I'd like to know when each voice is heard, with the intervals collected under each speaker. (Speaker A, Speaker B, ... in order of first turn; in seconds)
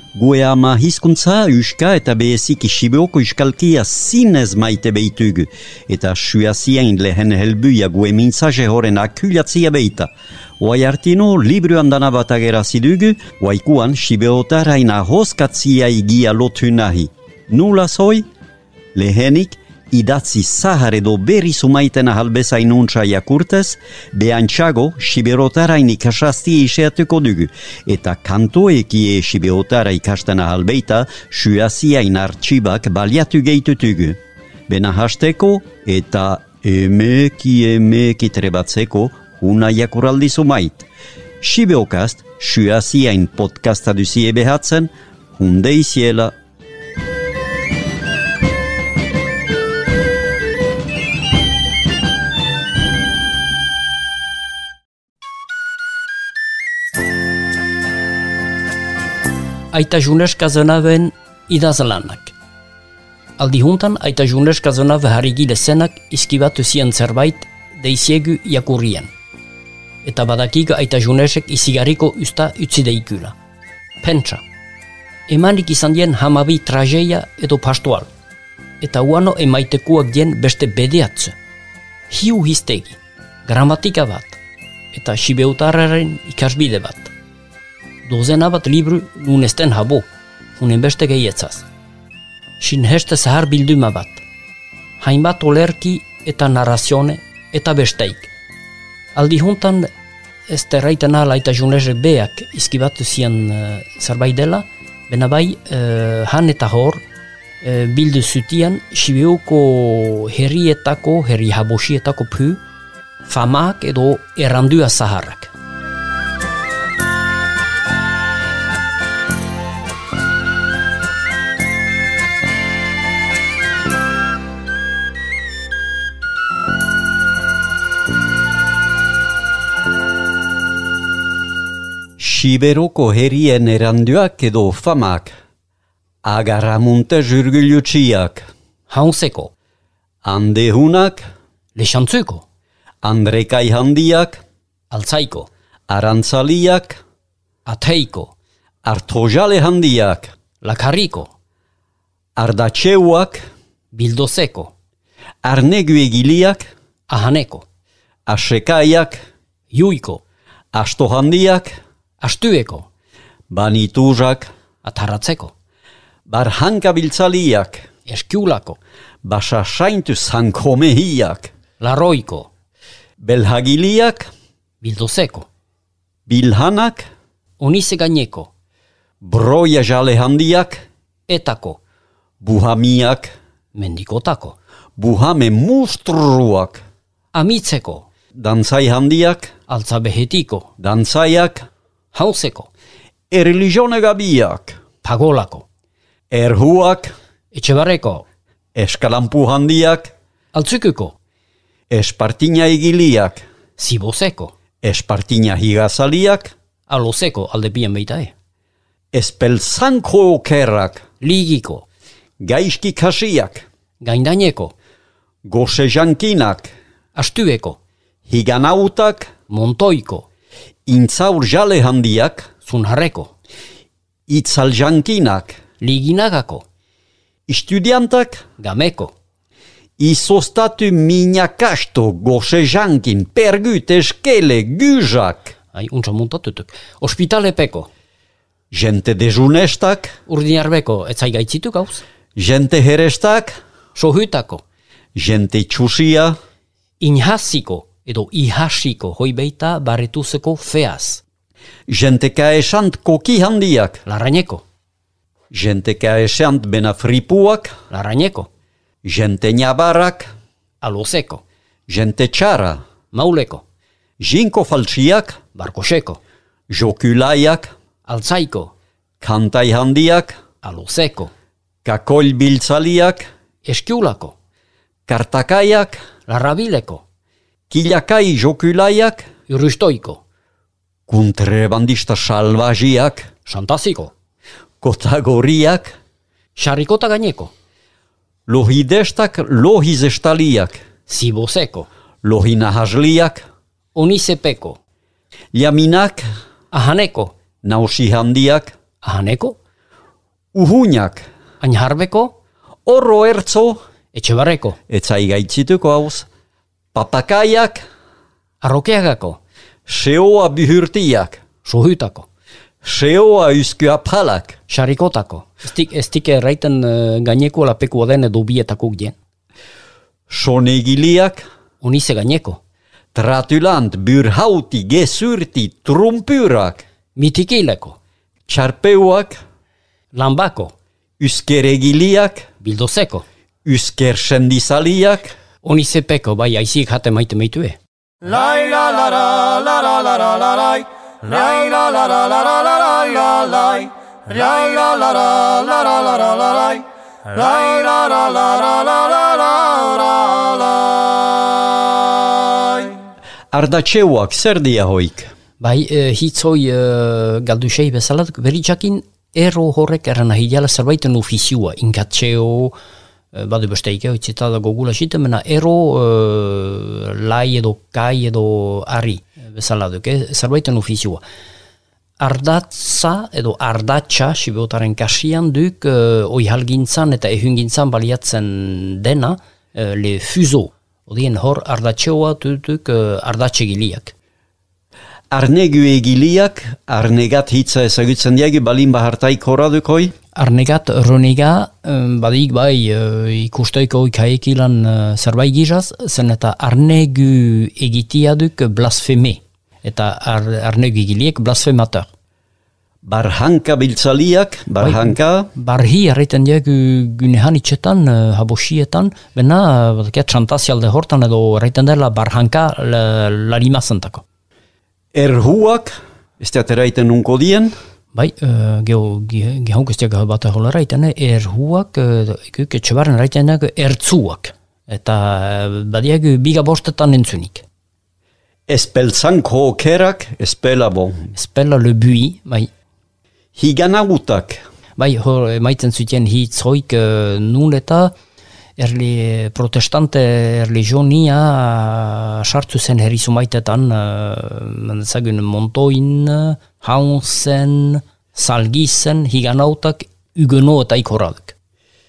Speaker A: 0.2-18.3, 18.9-40.9, 41.4-46.3, 132.2-135.3, 136.2-138.5, 140.2-141.3, 143.0-144.4, 145.9-147.0, 148.9-150.3, 152.4-153.4, 155.4-156.7, 158.3-159.2, 160.7-161.7, 163.5-164.5, 166.3-167.8, 169.2-171.5, 173.2-174.3, 176.3-177.1, 179.2-180.8, 182.4-183.3, 185.0-186.8, 188.4-189.5, 190.8-191.7, 193.3-194.8, 196.3-197.1, 198.8-200.1, 201.9-203.4, 204.8-206.5, 209.1-211.0, 212.4-213.7, 215.5-216.7, 218.3-219.3, 220.9-222.5, 224.3-225.6, 227.5-228.4, 230.0-235.6, 238.7-240.2, 242.4-243.5, 245.2-246.4, 251.9-254.0, 255.5-257.8, 259.0-260.3, 261.9-262.8, 264.2-265.4, 266.7-267.7, 269.2-270.4, 271.9-273.3, 275.1-276.0, 277.7-279.3, 281.1-283.3, 284.8-285.9, 288.5-290.8, 292.2-293.4, 295.5-296.2, 297.6-298.8, 300.5-301.2, 302.9-303.8, 304.9-306.3, 306.9-307.8, 309.9-311.4, 312.8-314.6, 320.3-321.4, 323.1-326.9, 328.5-329.4, 331.2-332.5, 333.7-335.3, 353.5-355.3, 385.3-390.1, 403.1-405.5, 415.1-417.7, 428.7-431.3, 433.6-434.6
Speaker B: 59.7-62.3, 63.4-69.1, 70.0-73.3, 74.0-74.4, 75.3-78.1, 78.8-81.3, 82.1-84.4, 84.9-87.1, 88.0-90.1, 90.6-91.7, 92.6-94.2, 95.0-98.3, 99.2-99.9, 100.5-107.0, 107.6-112.6, 113.3-115.5, 138.9-139.5, 141.8-142.4, 144.9-145.5, 147.7-148.3, 150.6-151.3, 153.9-154.7, 157.1-157.7, 159.7-160.2, 162.2-162.9, 164.8-165.5, 168.1-168.8, 171.8-172.5, 174.8-175.5, 177.6-178.5, 181.3-181.8, 183.8-184.6, 187.3-188.1, 189.7-190.7, 192.1-192.7, 195.0-195.7, 197.5-198.3, 200.5-201.2, 203.8-204.5, 206.9-208.3, 211.2-211.9, 214.0-214.7, 217.2-217.8, 219.5-220.3, 222.7-223.3, 225.8-226.6, 228.6-229.1, 235.7-237.9, 240.3-242.0, 243.9-244.6, 247.0-251.2, 254.1-254.6, 257.9-258.5, 260.8-261.4, 263.1-263.6, 265.6-266.2, 268.1-268.7, 270.6-271.3, 273.6-274.3, 276.3-277.0, 279.5-280.2, 283.5-284.1, 286.6-287.5, 291.1-291.9, 293.9-294.8, 296.7-297.3, 299.0-299.6, 301.6-302.3, 304.1-304.8, 308.6-309.4, 311.6-312.3, 314.7-319.2, 321.8-322.6, 327.1-328.0, 330.1-330.7, 332.6-333.2, 335.6-337.8, 355.6-362.7, 363.3-371.2, 372.2-384.1, 390.4-402.1, 404.8-414.2, 418.1-427.6, 431.3-432.7, 435.0-438.1, 438.8-451.6
Speaker C: 338.2-351.6, 352.4-352.9